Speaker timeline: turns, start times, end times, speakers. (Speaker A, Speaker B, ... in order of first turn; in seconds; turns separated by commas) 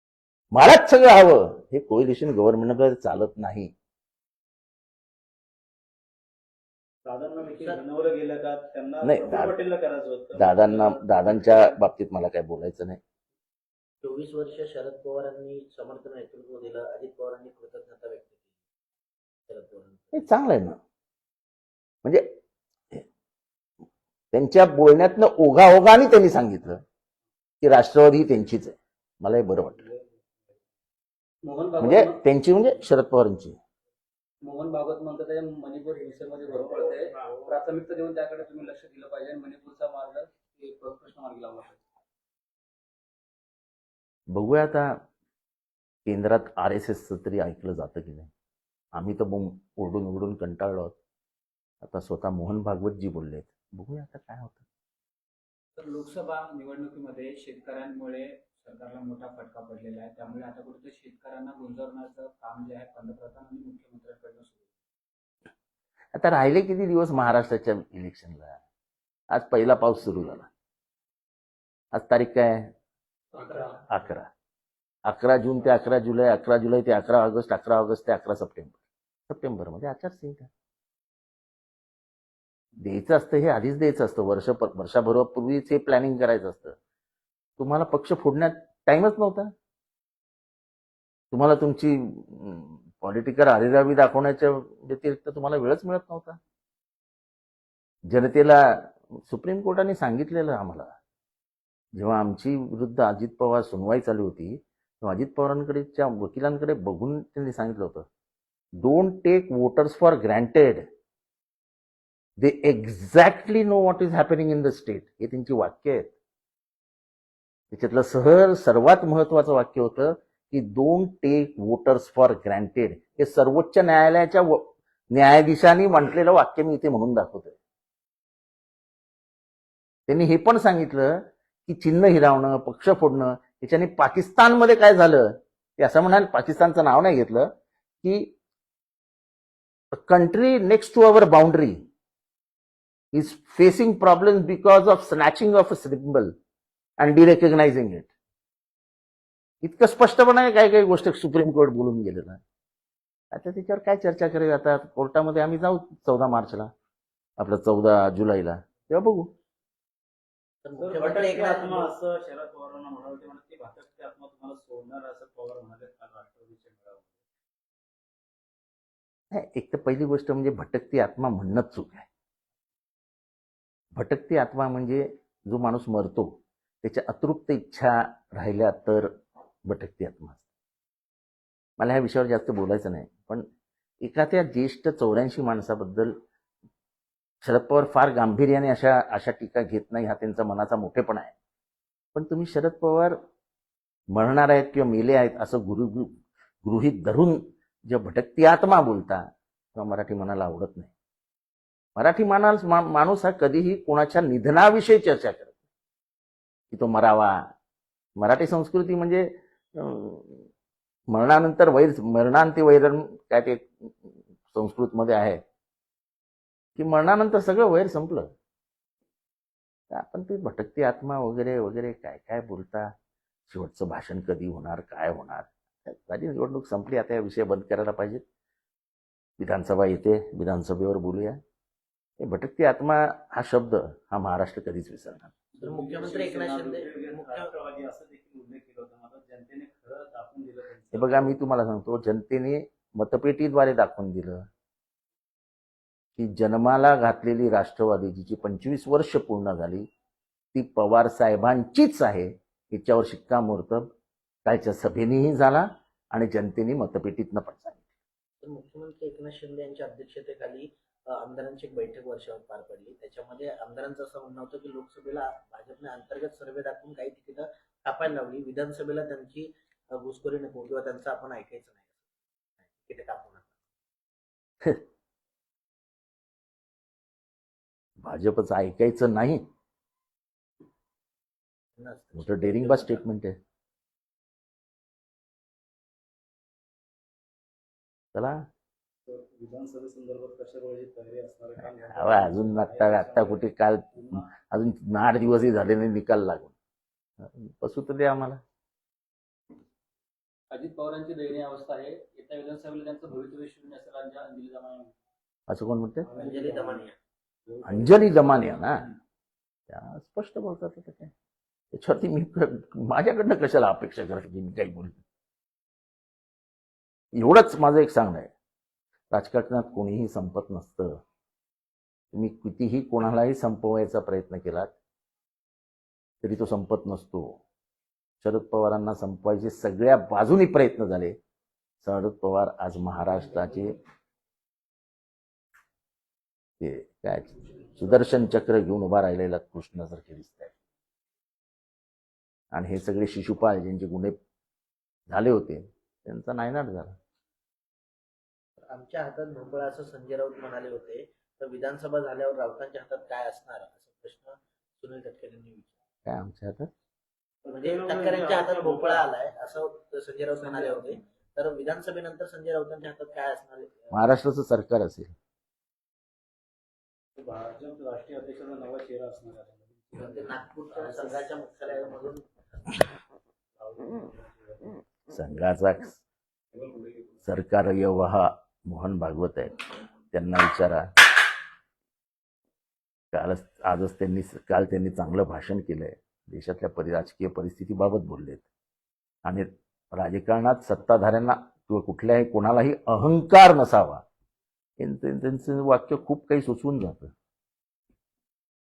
Speaker A: 0.5-3.7, Speaker B: 7.0-11.7, Speaker A: 9.0-9.5, Speaker A: 10.3-13.0, Speaker C: 14.0-18.4, Speaker C: 19.5-20.3, Speaker A: 20.1-20.8, Speaker A: 24.3-26.8, Speaker A: 27.6-29.8, Speaker B: 29.6-30.5, Speaker D: 31.4-32.2, Speaker A: 31.8-33.6, Speaker D: 34.4-41.8, Speaker B: 36.4-37.6, Speaker A: 44.3-44.9, Speaker A: 46.0-48.3, Speaker A: 48.9-50.9, Speaker A: 51.8-54.6, Speaker D: 55.8-58.1, Speaker E: 56.1-56.5, Speaker E: 57.0-64.7, Speaker D: 60.6-62.0, Speaker A: 66.1-68.6, Speaker A: 69.3-70.5, Speaker A: 71.9-72.7, Speaker D: 73.4-73.8, Speaker A: 73.9-74.3, Speaker A: 75.0-78.8, Speaker A: 79.3-80.5, Speaker A: 82.8-86.8, Speaker A: 87.6-89.5, Speaker A: 91.3-96.4, Speaker A: 98.1-100.9, Speaker A: 102.0-108.0, Speaker A: 108.8-110.8, Speaker A: 112.4-116.1, Speaker A: 117.7-127.5, Speaker A: 130.1-137.5, Speaker A: 138.0-138.3, Speaker A: 139.9-141.8, Speaker A: 143.1-146.3, Speaker A: 147.0-148.1, Speaker A: 149.6-152.4, Speaker A: 153.3-156.7, Speaker A: 157.4-159.3, Speaker C: 160.6-161.9, Speaker B: 160.8-167.2, Speaker A: 169.3-172.1, Speaker A: 173.9-179.1, Speaker A: 179.7-180.4, Speaker A: 181.8-183.4, Speaker A: 184.0-186.1, Speaker A: 187.4-191.3, Speaker A: 192.1-193.2, Speaker A: 194.1-199.2, Speaker A: 199.7-200.9, Speaker A: 201.9-205.5, Speaker A: 206.7-207.4, Speaker A: 208.2-210.4, Speaker A: 211.1-215.4, Speaker A: 216.8-218.3, Speaker A: 219.9-222.9, Speaker A: 223.5-228.2, Speaker A: 229.4-231.4, Speaker A: 232.2-235.3, Speaker B: 235.5-241.4, Speaker C: 235.6-237.5, Speaker A: 240.9-244.4, Speaker A: 246.2-249.9, Speaker A: 250.5-253.9, Speaker A: 254.4-257.8, Speaker C: 258.4-272.0, Speaker C: 272.8-273.5, Speaker A: 278.0-279.4, Speaker C: 281.8-283.0, Speaker A: 282.1-283.3, Speaker A: 288.1-288.4, Speaker B: 289.1-294.3, Speaker A: 291.6-296.5, Speaker A: 297.2-298.4, Speaker D: 300.5-304.9, Speaker A: 305.5-306.1, Speaker B: 306.0-306.9, Speaker C: 306.2-306.9, Speaker B: 307.4-308.6, Speaker A: 307.6-308.8, Speaker A: 309.7-311.1, Speaker A: 311.7-315.0, Speaker A: 317.1-318.3, Speaker A: 319.1-321.0, Speaker A: 322.1-324.7, Speaker A: 326.2-327.4, Speaker A: 328.2-331.1, Speaker A: 331.8-333.7, Speaker A: 336.6-340.5, Speaker A: 342.5-344.1, Speaker A: 345.1-346.9, Speaker C: 348.7-355.7, Speaker A: 356.1-356.7, Speaker B: 357.4-359.0, Speaker C: 357.6-363.9, Speaker B: 360.5-360.8, Speaker A: 363.9-365.1, Speaker B: 367.1-371.3, Speaker C: 369.9-372.2, Speaker B: 373.6-374.8, Speaker A: 375.1-376.0, Speaker B: 376.6-377.0, Speaker A: 377.2-379.6, Speaker A: 380.1-380.9, Speaker A: 383.1-388.4, Speaker A: 389.2-394.0, Speaker A: 394.8-397.1